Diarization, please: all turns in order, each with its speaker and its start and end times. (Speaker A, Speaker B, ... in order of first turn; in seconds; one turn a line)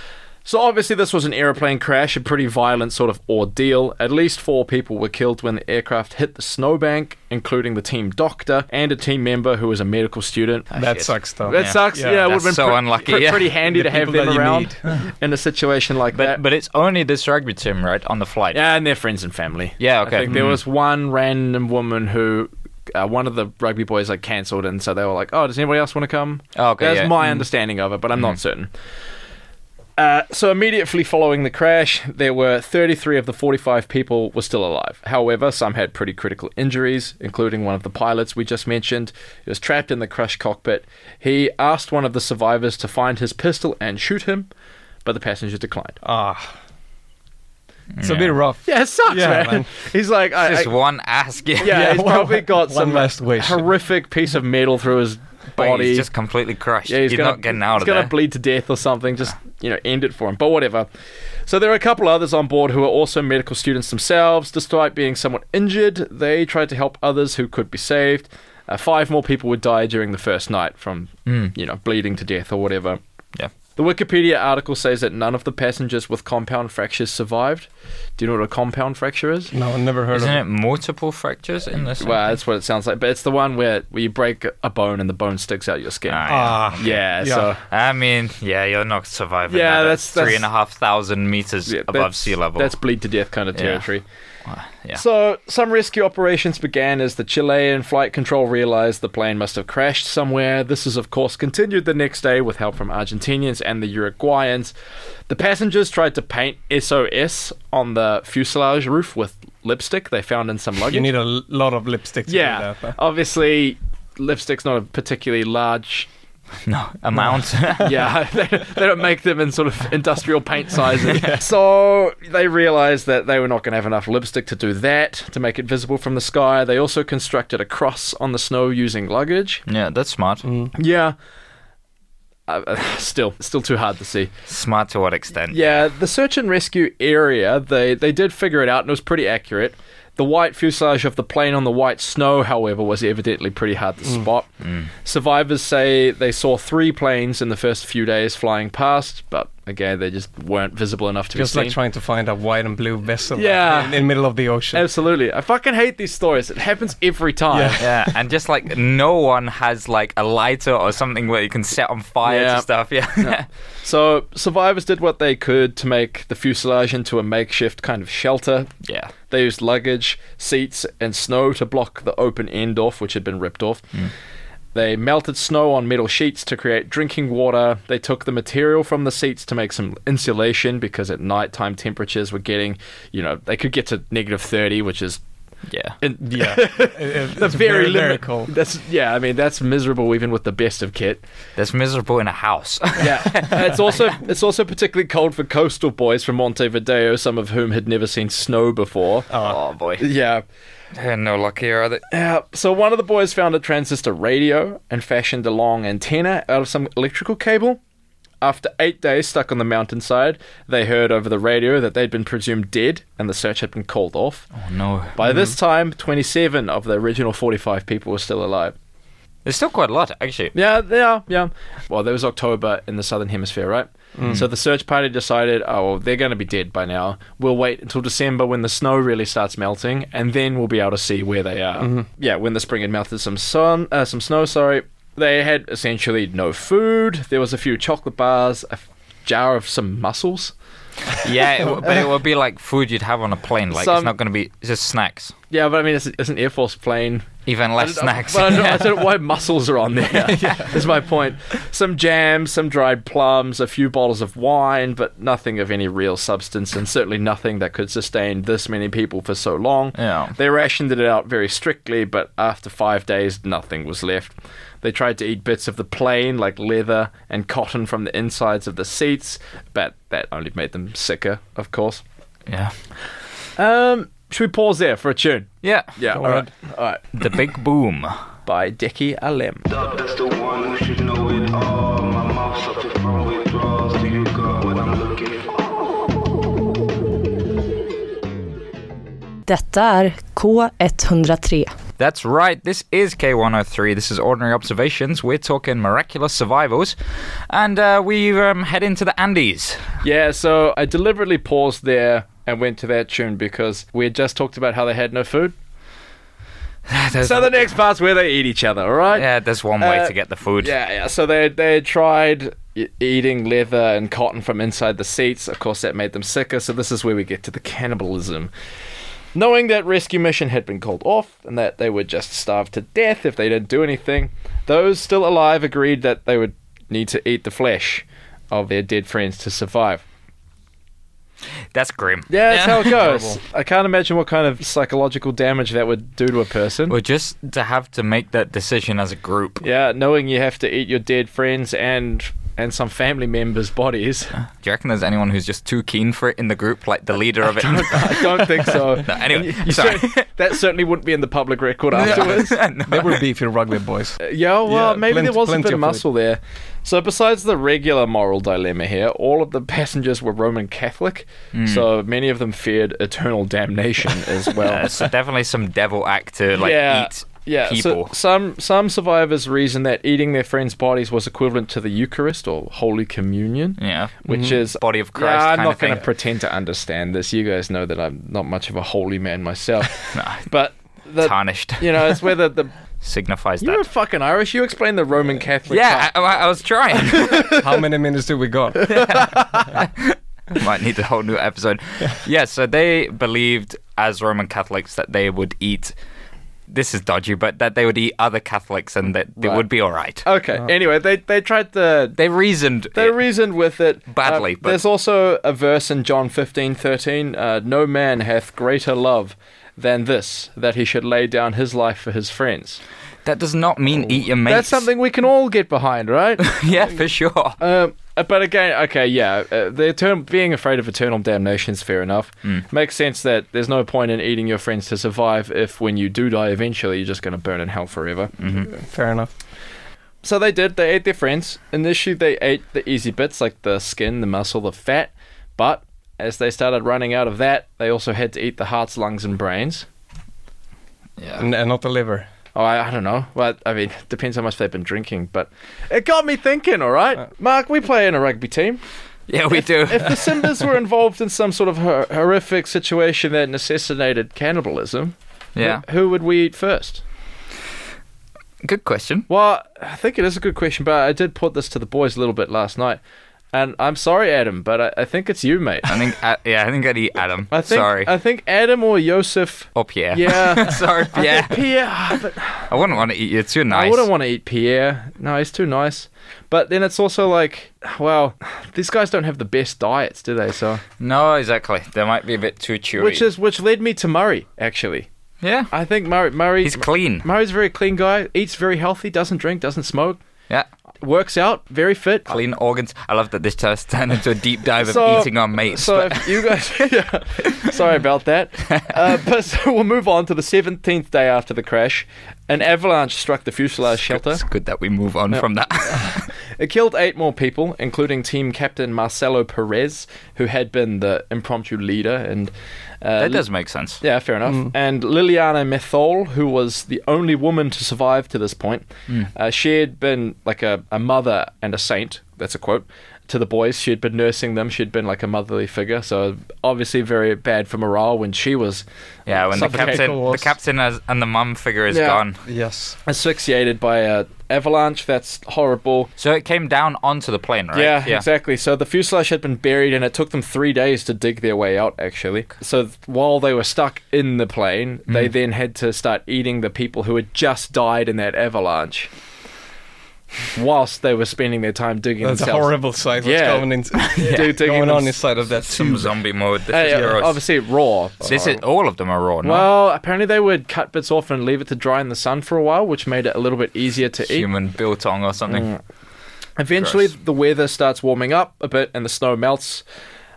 Speaker A: 0.4-16.4
Speaker B: 10.7-12.3
Speaker C: 10.8-13.5
Speaker B: 13.6-14.8
Speaker C: 16.1-18.6
Speaker A: 18.5-28.7
Speaker C: 19.8-20.6
Speaker B: 20.3-20.5
Speaker C: 26.5-27.1
Speaker A: 30.0-44.5
Speaker A: 45.0-46.0
Speaker B: 46.0-46.5
Speaker C: 47.9-48.4
Speaker B: 48.0-49.7
Speaker A: 48.6-50.7
Speaker C: 50.4-51.8
Speaker A: 51.6-56.1
Speaker B: 51.6-53.7
Speaker C: 55.5-58.1
Speaker A: 56.9-60.9
Speaker A: 61.5-73.0
Speaker C: 71.3-71.5
Speaker A: 73.8-79.5
Speaker B: 79.5-80.4
Speaker C: 80.1-82.3
Speaker A: 81.8-87.6
Speaker C: 86.1-87.0
Speaker B: 86.3-87.5
Speaker C: 87.7-92.7
Speaker A: 89.5-90.5
Speaker A: 91.7-94.0
Speaker C: 93.5-93.8
Speaker C: 94.5-95.0
Speaker A: 95.0-104.7
Speaker A: 105.3-111.1
Speaker B: 110.9-113.0
Speaker A: 112.3-116.1
Speaker C: 116.7-117.9
Speaker A: 117.8-129.6
Speaker B: 121.1-121.4
Speaker C: 129.7-130.4
Speaker B: 130.4-130.7
Speaker A: 130.7-131.1
Speaker A: 132.5-134.3
Speaker C: 134.5-135.9
Speaker A: 135.5-144.5
Speaker C: 144.6-144.9
Speaker A: 145.0-151.8
Speaker B: 151.3-154.8
Speaker A: 153.3-154.1
Speaker A: 154.7-157.8
Speaker B: 157.5-158.1
Speaker C: 157.8-163.4
Speaker A: 162.2-168.7
Speaker C: 168.8-169.1
Speaker A: 169.3-173.9
Speaker A: 174.7-185.2
Speaker C: 185.7-185.9
Speaker A: 186.0-191.2
Speaker B: 186.2-188.5
Speaker C: 191.6-193.9
Speaker A: 193.0-199.3
Speaker B: 199.3-199.6
Speaker C: 199.4-200.0
Speaker A: 200.0-200.4
Speaker C: 200.9-202.0
Speaker A: 202.1-207.8
Speaker A: 208.4-214.5
Speaker C: 214.5-215.1
Speaker A: 215.2-218.7
Speaker C: 219.4-220.5
Speaker A: 220.5-240.5
Speaker B: 224.2-224.4
Speaker C: 241.2-245.3
Speaker A: 243.7-244.1
Speaker A: 245.5-272.0
Speaker C: 247.4-249.0
Speaker B: 250.3-250.7
Speaker C: 259.9-260.3
Speaker C: 272.5-272.7
Speaker A: 273.6-277.2
Speaker C: 275.6-275.9
Speaker B: 276.1-276.5
Speaker C: 277.1-278.2
Speaker A: 278.4-279.7
Speaker D: 279.7-285.6
Speaker E: 289.4-291.7
Speaker C: 292.0-296.9
Speaker C: 297.5-299.9
Speaker A: 300.0-305.5
Speaker C: 306.9-307.5
Speaker A: 307.2-318.5
Speaker C: 309.1-310.7
Speaker A: 319.3-330.0
Speaker C: 331.7-333.4
Speaker A: 332.3-336.9
Speaker C: 336.9-339.6
Speaker A: 339.6-344.3
Speaker C: 344.5-350.3
Speaker A: 347.5-352.6
Speaker C: 351.9-353.2
Speaker B: 352.0-356.0
Speaker A: 354.2-365.0
Speaker C: 361.5-361.9
Speaker C: 364.6-368.1
Speaker A: 366.6-382.7
Speaker C: 373.8-376.0
Speaker B: 374.3-374.6
Speaker C: 380.1-380.4
Speaker C: 381.2-382.2
Speaker C: 383.0-383.8
Speaker A: 383.6-386.1
Speaker C: 385.7-387.6
Speaker B: 387.5-389.2
Speaker C: 388.9-395.9
Speaker C: 396.7-400.2
Speaker A: 400.2-402.2
Speaker C: 402.2-403.2
Speaker A: 402.9-412.8
Speaker C: 404.1-404.8
Speaker C: 413.2-414.9
Speaker A: 414.4-416.5
Speaker C: 416.4-417.6
Speaker A: 417.6-428.3
Speaker C: 428.4-428.7
Speaker B: 428.6-429.3
Speaker A: 430.2-439.9
Speaker C: 441.2-441.4
Speaker B: 441.4-442.3
Speaker A: 442.5-448.8
Speaker C: 449.3-450.3
Speaker A: 449.5-457.0
Speaker C: 455.6-455.8
Speaker C: 458.6-459.3
Speaker A: 459.3-463.0
Speaker A: 463.5-465.9
Speaker C: 465.9-468.1
Speaker A: 467.5-472.8
Speaker C: 469.8-471.6
Speaker C: 472.7-474.1
Speaker A: 473.7-480.8
Speaker C: 481.0-483.2
Speaker A: 483.0-485.1
Speaker C: 485.4-485.7
Speaker A: 485.7-490.2
Speaker C: 486.6-487.2
Speaker A: 491.0-492.4
Speaker C: 492.3-496.5
Speaker A: 494.8-504.4
Speaker C: 504.1-506.3
Speaker A: 506.6-513.4
Speaker C: 513.2-514.0
Speaker A: 514.0-528.8
Speaker C: 529.3-532.4
Speaker A: 529.5-530.1
Speaker B: 529.5-530.5
Speaker A: 531.9-532.2
Speaker B: 532.5-533.0
Speaker A: 533.0-536.1
Speaker C: 536.2-538.2
Speaker A: 537.7-549.1
Speaker A: 550.5-555.2
Speaker B: 552.2-556.1
Speaker C: 554.1-554.5
Speaker C: 555.6-557.4
Speaker A: 556.7-558.6
Speaker C: 558.2-559.7
Speaker A: 559.4-564.5
Speaker C: 564.3-565.7
Speaker A: 565.5-565.8
Speaker A: 566.6-569.8
Speaker C: 566.8-567.1